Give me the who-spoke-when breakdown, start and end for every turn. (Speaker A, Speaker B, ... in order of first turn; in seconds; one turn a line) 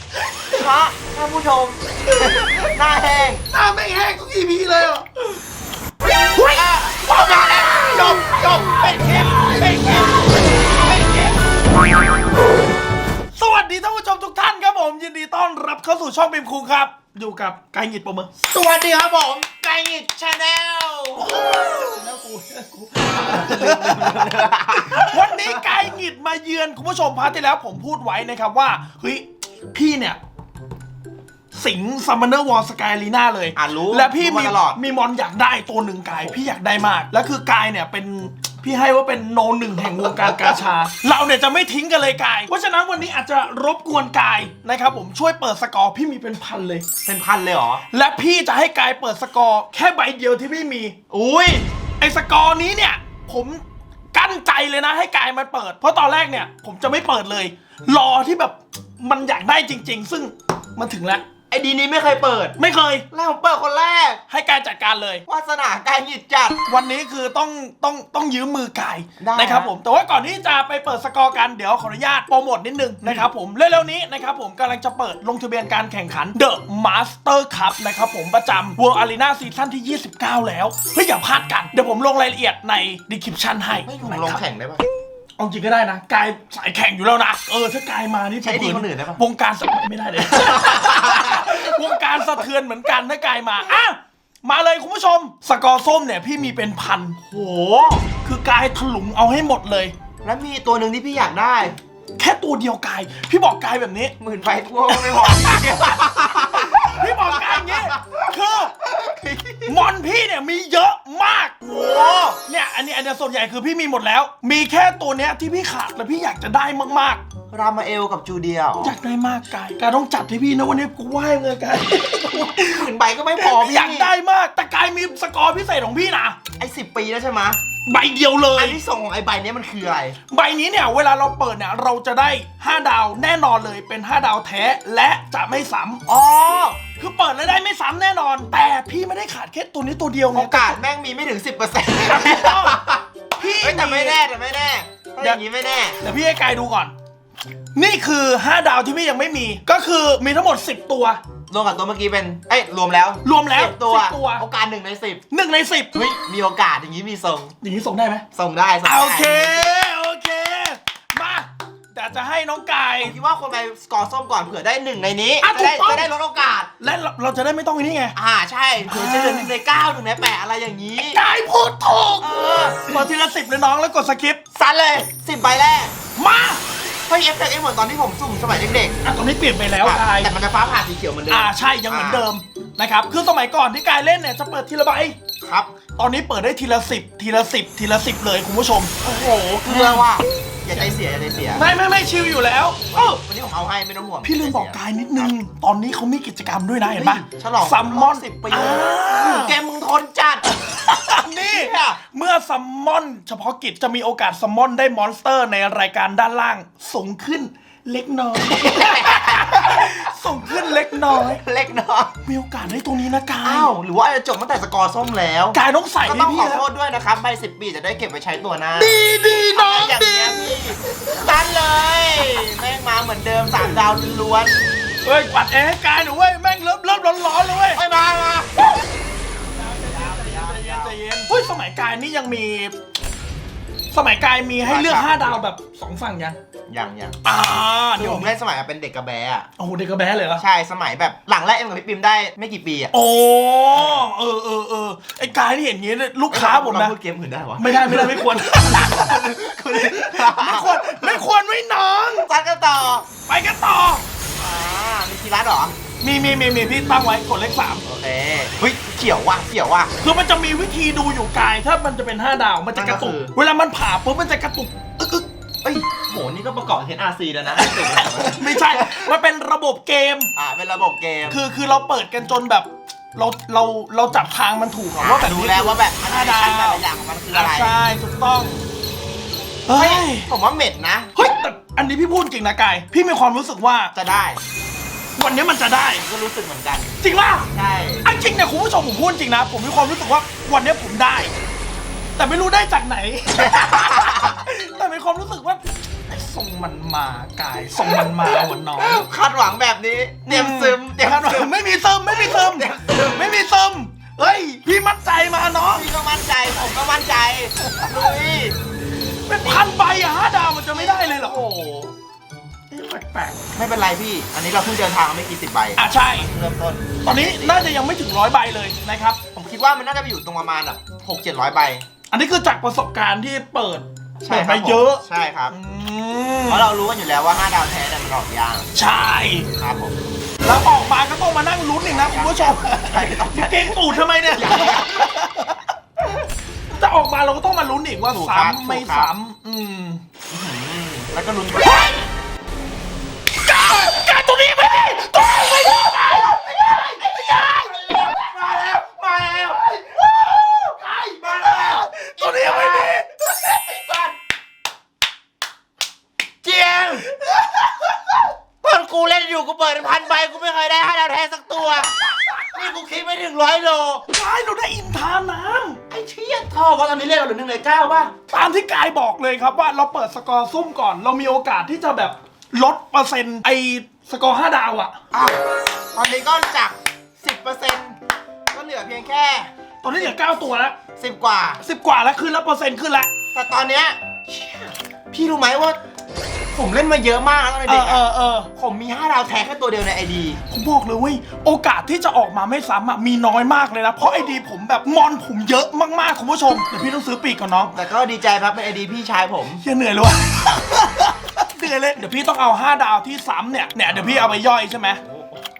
Speaker A: 0.5-3.5
Speaker B: 2.2-2.6
Speaker B: 3.5-5.4
Speaker A: 6.3-11.6
Speaker B: 6.4-8.4
Speaker B: 9.4-10.2
Speaker B: 13.4-18.3
Speaker A: 18.4-21.3
Speaker B: 21.2-30.2
Speaker A: 23.1-25.7
Speaker B: 31.5-46.9
Speaker A: 33.5-34.8
Speaker A: 36.1-36.4
Speaker A: 39.8-40.6
Speaker A: 47.0-47.8
Speaker B: 47.9-61.2
Speaker A: 61.5-62.6
Speaker B: 62.6-63.0
Speaker A: 63.1-64.2
Speaker B: 64.3-65.2
Speaker A: 65.3-66.6
Speaker B: 66.7-84.4
Speaker A: 69.2-69.7
Speaker A: 83.8-84.8
Speaker B: 85.4-99.9
Speaker A: 88.4-89.2
Speaker A: 90.3-92.0
Speaker A: 100.2-101.8
Speaker B: 102.2-104.2
Speaker A: 104.2-109.7
Speaker B: 104.9-108.8
Speaker B: 109.7-117.2
Speaker A: 117.5-118.9
Speaker B: 118.8-126.4
Speaker A: 122.3-124.1
Speaker A: 126.6-127.6
Speaker B: 127.8-128.8
Speaker A: 128.5-130.2
Speaker B: 130.3-136.0
Speaker A: 136.1-136.8
Speaker B: 137.0-140.8
Speaker A: 140.3-146.0
Speaker B: 142.0-142.8
Speaker B: 143.4-144.2
Speaker B: 146.0-146.9
Speaker B: 147.8-151.2
Speaker A: 151.5-155.2
Speaker B: 153.2-154.4
Speaker B: 155.3-156.0
Speaker A: 155.9-157.5
Speaker B: 157.6-158.2
Speaker A: 158.3-159.7
Speaker B: 158.8-163.2
Speaker A: 163.0-166.7
Speaker B: 165.4-166.1
Speaker B: 166.8-168.2
Speaker A: 168.1-171.2
Speaker B: 168.9-169.5
Speaker B: 171.1-174.4
Speaker A: 172.2-172.8
Speaker A: 174.5-175.9
Speaker B: 176.2-176.6
Speaker A: 177.1-179.0
Speaker B: 179.0-180.3
Speaker A: 179.8-182.3
Speaker B: 181.3-185.2
Speaker A: 185.4-185.7
Speaker B: 185.9-190.1
Speaker A: 189.0-191.6
Speaker B: 191.5-193.2
Speaker A: 192.9-195.3
Speaker B: 194.2-199.6
Speaker A: 196.9-200.4
Speaker B: 200.5-211.4
Speaker A: 201.2-202.0
Speaker A: 208.5-210.1
Speaker A: 210.6-212.1
Speaker B: 212.2-213.7
Speaker A: 213.4-219.0
Speaker B: 215.5-216.7
Speaker B: 218.8-221.3
Speaker A: 219.5-224.6
Speaker B: 225.0-227.8
Speaker A: 227.8-228.7
Speaker B: 229.5-232.7
Speaker A: 229.7-230.9
Speaker B: 233.9-236.4
Speaker A: 234.6-235.4
Speaker A: 236.7-237.2
Speaker B: 237.2-238.3
Speaker A: 238.0-239.5
Speaker B: 239.6-240.4
Speaker A: 240.4-242.9
Speaker B: 242.9-246.9
Speaker A: 243.8-244.1
Speaker A: 246.3-251.2
Speaker B: 247.6-249.2
Speaker B: 249.7-252.3
Speaker A: 252.2-253.1
Speaker B: 253.3-254.0
Speaker A: 254.4-255.8
Speaker B: 256.0-257.8
Speaker A: 257.8-259.9
Speaker B: 260.0-265.2
Speaker A: 262.7-263.3
Speaker A: 265.6-269.1
Speaker B: 267.5-270.3
Speaker A: 270.3-271.4
Speaker B: 271.3-278.6
Speaker A: 275.0-277.7
Speaker B: 279.7-280.3
Speaker A: 279.7-281.1
Speaker B: 281.1-283.9
Speaker A: 283.9-284.4
Speaker B: 285.2-286.1
Speaker A: 285.9-287.0
Speaker B: 287.0-287.5
Speaker A: 287.5-288.1
Speaker B: 288.0-291.3
Speaker B: 292.2-299.0
Speaker A: 293.3-294.4
Speaker A: 297.8-301.5
Speaker B: 300.2-305.9
Speaker A: 302.1-303.3
Speaker A: 305.7-308.6
Speaker B: 309.3-311.4
Speaker A: 309.4-309.7
Speaker A: 310.7-311.9
Speaker B: 312.7-313.5
Speaker A: 313.6-317.7
Speaker B: 315.8-316.3
Speaker B: 317.0-319.2
Speaker A: 319.3-321.9
Speaker B: 322.1-326.7
Speaker A: 324.2-325.6
Speaker A: 326.5-328.7
Speaker B: 328.7-329.5
Speaker A: 329.6-330.0
Speaker B: 330.4-335.6
Speaker A: 331.8-335.4
Speaker B: 336.7-340.0
Speaker A: 338.1-339.1
Speaker A: 340.3-342.1
Speaker B: 343.4-347.9
Speaker A: 345.4-354.1
Speaker B: 350.3-350.6
Speaker B: 351.2-353.5
Speaker A: 356.4-357.1
Speaker B: 357.1-358.0
Speaker A: 358.6-364.1
Speaker B: 364.1-365.8
Speaker A: 365.9-368.1
Speaker B: 368.3-375.0
Speaker A: 375.1-375.4
Speaker A: 375.9-378.0
Speaker A: 378.5-380.1
Speaker B: 379.8-380.8
Speaker A: 381.0-381.6
Speaker B: 381.6-383.1
Speaker A: 383.3-385.8
Speaker A: 386.5-388.0
Speaker B: 387.6-388.5
Speaker A: 388.6-390.4
Speaker B: 390.5-397.8
Speaker A: 397.7-399.6
Speaker B: 399.6-405.0
Speaker A: 403.9-404.4
Speaker A: 405.0-405.4